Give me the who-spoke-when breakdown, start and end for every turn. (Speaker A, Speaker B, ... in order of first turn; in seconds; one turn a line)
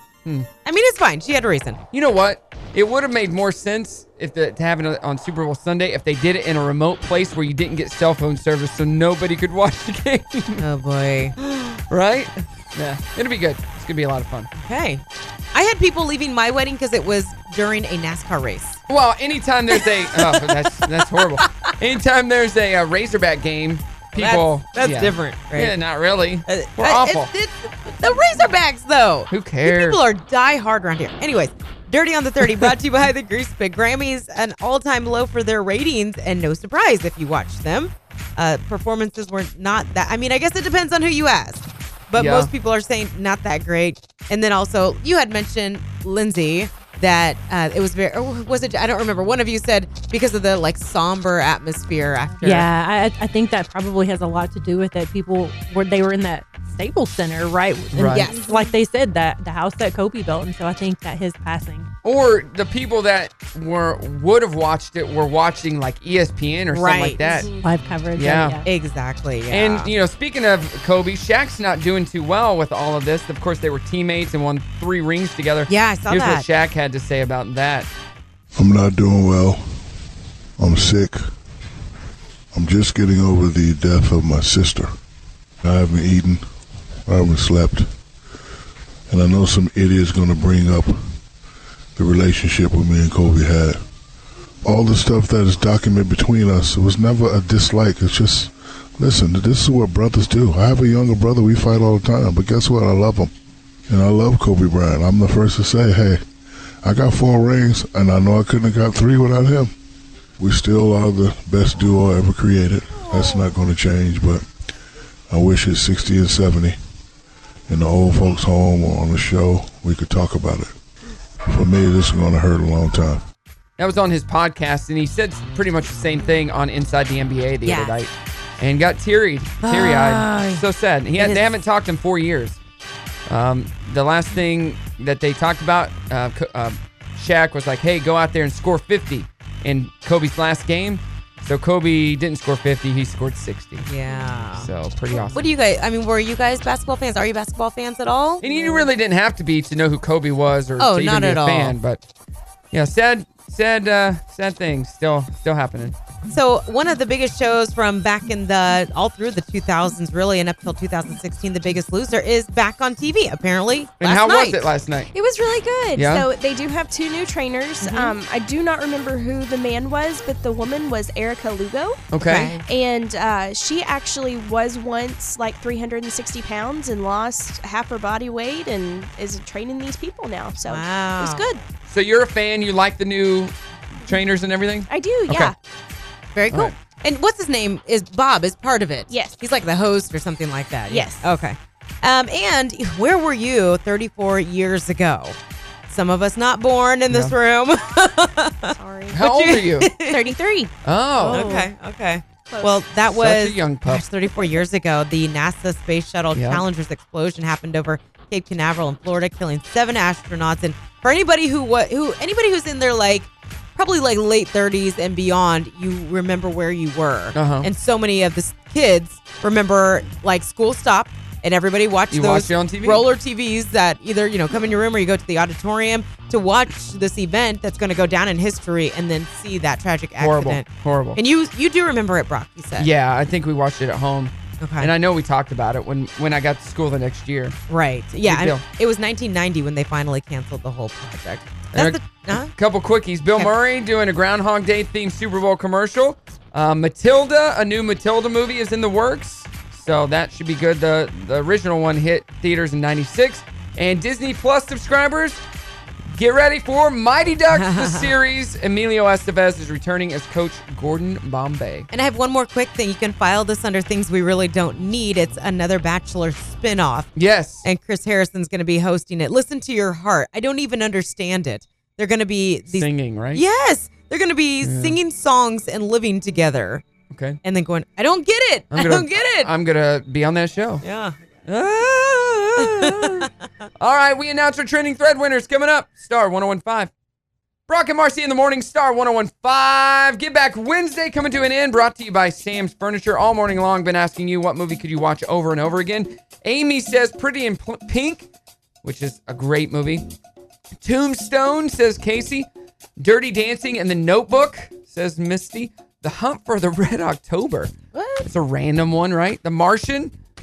Speaker A: 0.6-1.8
Speaker B: 1.9-10.6
Speaker A: 10.6-11.3
Speaker B: 11.4-14.5
Speaker A: 14.5-18.8
Speaker B: 18.9-27.3
Speaker A: 19.7-20.4
Speaker A: 21.1-21.7
Speaker A: 24.1-25.7
Speaker A: 26.5-52.6
Speaker B: 29.3-30.0
Speaker B: 42.1-42.5
Speaker C: 52.4-61.9
Speaker B: 57.9-58.3
Speaker A: 58.1-58.4
Speaker D: 58.3-58.8
Speaker B: 62.0-67.5
Speaker A: 66.7-67.4
Speaker D: 67.2-67.7
Speaker C: 67.6-68.6
Speaker B: 68.1-68.6
Speaker A: 68.6-69.9
Speaker B: 69.5-77.9
Speaker A: 75.7-76.5
Speaker E: 78.5-79.7
Speaker E: 80.6-81.2
Speaker E: 82.5-84.9
Speaker E: 85.6-86.4
Speaker E: 87.1-87.9
Speaker E: 89.1-91.0
Speaker E: 92.0-93.8
Speaker E: 94.6-103.3
Speaker E: 103.9-106.2
Speaker E: 106.8-109.7
Speaker E: 110.4-114.5
Speaker D: 112.9-113.5
Speaker E: 115.3-116.8
Speaker E: 117.7-120.7
Speaker E: 121.5-123.2
Speaker B: 123.8-132.6
Speaker A: 127.6-128.0
Speaker A: 129.6-130.6
Speaker A: 131.2-131.5
Speaker B: 133.3-143.9
Speaker A: 143.8-144.7
Speaker B: 144.6-145.4
Speaker A: 145.3-148.8
Speaker B: 148.4-152.0
Speaker A: 150.8-151.8
Speaker B: 152.7-155.9
Speaker A: 156.3-164.2
Speaker B: 164.0-165.1
Speaker D: 164.1-172.0
Speaker B: 165.9-166.3
Speaker C: 167.9-168.2
Speaker B: 172.1-172.5
Speaker A: 172.2-172.6
Speaker D: 172.6-180.8
Speaker A: 180.6-181.4
Speaker C: 181.2-181.5
Speaker B: 181.9-185.5
Speaker D: 184.9-185.5
Speaker A: 186.3-195.4
Speaker D: 189.1-189.3
Speaker D: 190.9-191.2
Speaker A: 195.9-200.3
Speaker D: 198.8-199.2
Speaker B: 199.1-199.9
Speaker D: 200.0-200.7
Speaker B: 200.8-201.7
Speaker A: 201.2-230.6
Speaker D: 202.5-202.8
Speaker B: 203.0-204.0
Speaker B: 206.3-206.6
Speaker B: 217.3-217.7
Speaker B: 222.1-223.0
Speaker B: 230.2-231.2
Speaker A: 231.2-232.9
Speaker B: 232.8-237.6
Speaker A: 234.6-234.9
Speaker A: 237.7-242.5
Speaker B: 238.2-238.6
Speaker B: 241.7-255.4
Speaker B: 256.1-261.9
Speaker A: 257.5-258.1
Speaker A: 261.9-267.1
Speaker B: 267.1-267.6
Speaker A: 267.6-276.9
Speaker B: 272.7-273.4
Speaker B: 274.6-274.9
Speaker B: 277.1-277.4
Speaker A: 277.4-279.5
Speaker B: 278.7-280.8
Speaker A: 280.8-281.1
Speaker B: 281.5-283.2
Speaker A: 282.6-283.3
Speaker B: 283.8-286.9
Speaker B: 287.7-298.3
Speaker B: 298.8-300.1
Speaker B: 300.8-307.7
Speaker A: 307.9-308.3
Speaker B: 308.2-310.1